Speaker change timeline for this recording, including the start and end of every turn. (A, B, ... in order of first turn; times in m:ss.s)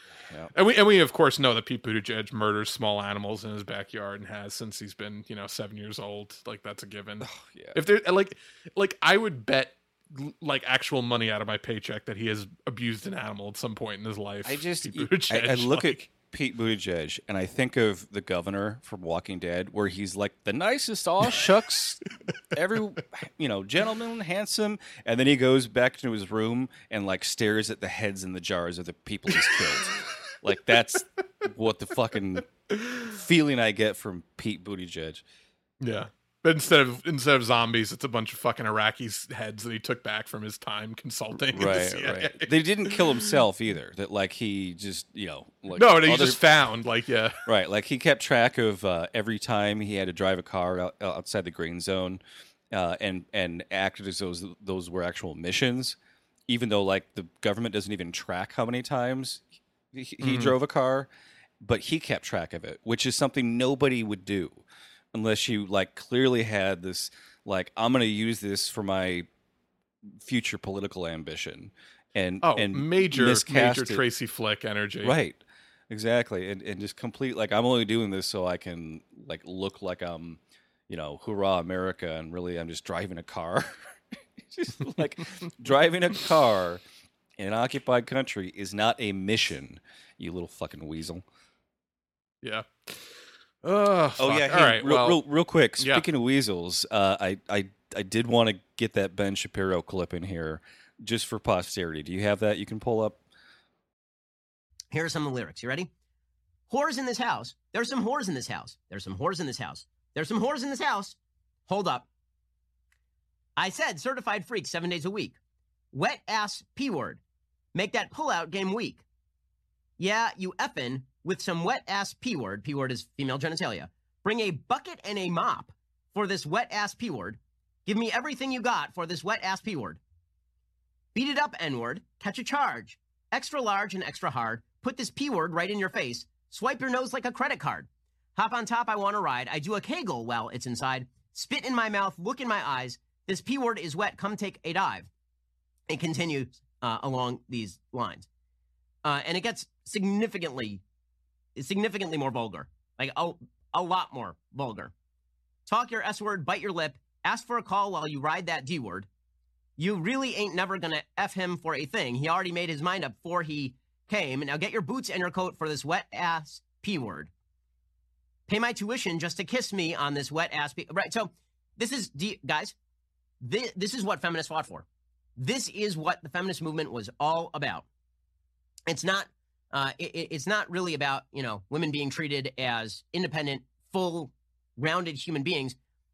0:00.5-0:16.1 A
0:07.2-0:07.8 B
0:14.4-0:32.5 B
0:33.0-0:35.2 B
0:35.8-0:43.4 A
0:41.5-0:46.4 B
0:45.7-0:47.4 A
0:47.4-0:56.0 B
0:56.5-1:01.1 B
1:00.2-1:00.5 A
1:01.6-1:09.3 B
1:10.2-1:14.0 B
1:12.4-1:15.2 A
1:15.0-1:26.8 B
1:27.4-1:31.2 B
1:32.4-1:33.1 A
1:33.6-1:35.2 A
1:34.2-1:43.2 B
1:35.8-1:36.0 A
1:44.9-1:45.9 C
1:46.7-1:52.1 C
1:53.6-1:55.4 C
1:55.9-1:57.2 C
1:57.7-1:59.0 C
2:00.0-2:10.0 C
2:11.2-2:25.1 C
2:25.9-2:28.3 C
2:29.0-2:30.8 C
2:31.6-2:34.9 C
2:35.7-2:39.1 C
2:39.8-2:47.3 C
2:48.5-2:52.8 C
2:53.4-2:54.9 C
2:55.4-2:57.8 C
2:58.9-3:05.8 C